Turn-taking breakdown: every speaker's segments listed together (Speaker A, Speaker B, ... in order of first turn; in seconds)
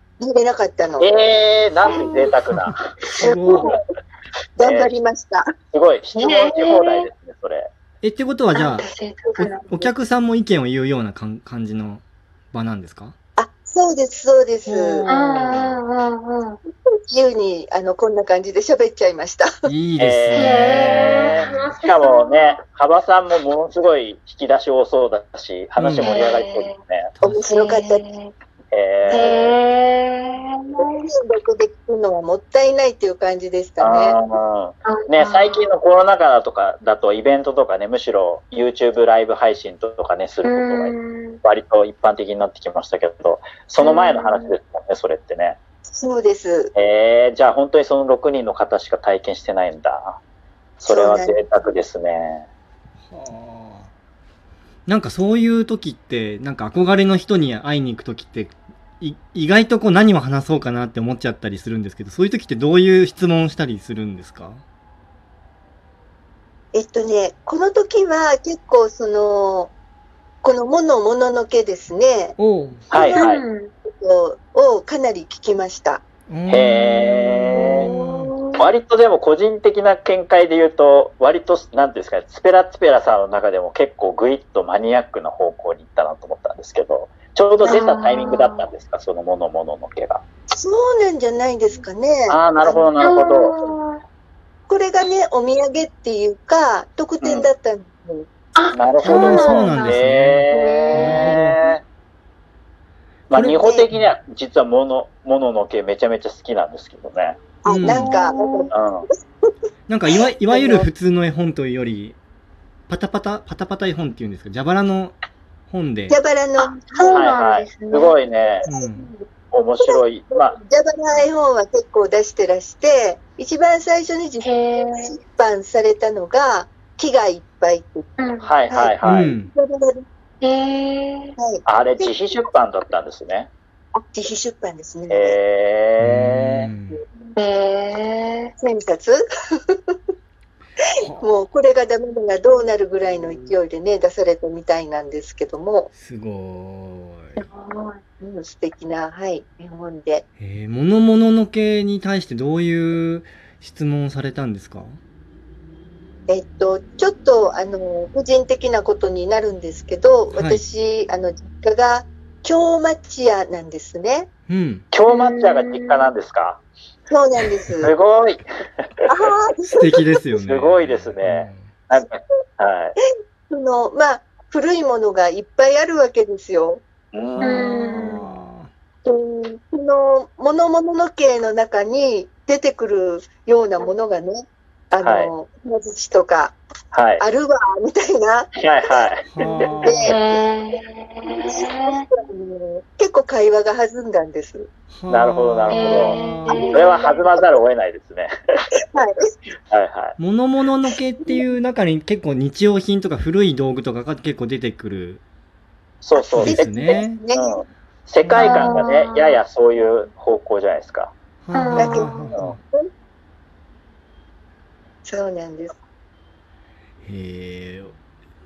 Speaker A: 0.2-1.1, 3.2-3.8, 4.6-5.5, 13.4-15.2, 17.1-19.5, 27.2-28.0, 29.1-29.4, 30.8-34.2, 45.9-46.7, 50.9-51.4, 66.7-69.7, 70.4-72.4, 72.9-73.3, 73.9-76.0, 87.6-87.9, 90.5-93.0, 94.7-98.3, 103.6-103.9, 107.6-109.5, 110.5-110.9, 116.1-117.3, 118.7-119.2, 120.5-128.1, 128.7-130.1, 131.4-132.1, 133.9-135.4, 138.6-139.2, 141.2-145.9, 148.2-150.2, 156.3-164.3, 167.1-167.9, 169.1-170.0, 173.5-176.8, 179.1-186.6, 187.2-188.5, 189.8-190.4, 191.3-194.7, 196.5-197.4, 198.9-199.3, 201.2-201.5, 206.1-207.6, 211.8-212.9, 215.1-215.8
Speaker B: 1.0-2.8, 4.6-4.9, 5.7-7.7, 20.0-27.1, 28.7-29.6, 33.8-40.9, 41.4-45.6, 46.7-50.2, 50.8-52.5, 72.9-73.4, 76.5-77.9, 78.6-90.2, 92.3-93.5, 97.2-97.5, 98.7-101.8, 103.3-107.4, 108.7-109.1, 117.1-118.7, 119.5-120.6, 128.4-129.3, 131.7-133.5, 135.1-136.7, 164.9-166.6, 167.8-169.0, 170.4-172.9, 177.1-177.6, 185.0-185.3, 186.9-187.2, 188.6-189.9, 195.1-196.2, 196.7-198.3, 199.7-200.1, 206.0-211.1
Speaker C: 1.9-2.3, 3.1-3.4, 6.2-7.1, 8.6-9.9, 14.7-16.6, 20.4-22.6, 26.0-26.8, 27.5-28.3, 29.1-31.1, 34.9-35.7, 40.5-41.4, 43.8-44.5, 73.2-73.7, 77.5-78.7, 87.6-88.6, 93.0-94.0, 98.6-100.0, 100.5-101.4, 107.8-108.7, 116.7-118.1, 124.4-125.1, 128.2-128.6, 130.4-131.3, 137.4-138.5, 147.4-148.0, 165.1-166.1, 177.4-178.2, 190.0-192.1, 195.7-197.1, 208.3-209.4, 211.6-212.3
Speaker D: 2.6-3.7, 8.0-13.2, 15.3-15.8, 19.7-21.8, 25.8-26.2, 53.1-53.9, 54.9-64.6, 72.4-73.0, 76.3-78.3, 99.0-101.6, 103.3-104.1, 107.7-108.2, 109.9-112.2, 112.9-115.2, 115.7-116.2, 118.7-119.1, 129.1-129.5, 136.0-137.0, 145.9-147.5, 150.4-155.0, 160.3-160.6, 164.5-164.8, 169.8-171.7, 177.4-178.7, 189.3-190.2, 194.9-196.8, 200.2-205.2, 206.4-207.2, 208.2-208.9, 211.4-212.6, 217.0-217.9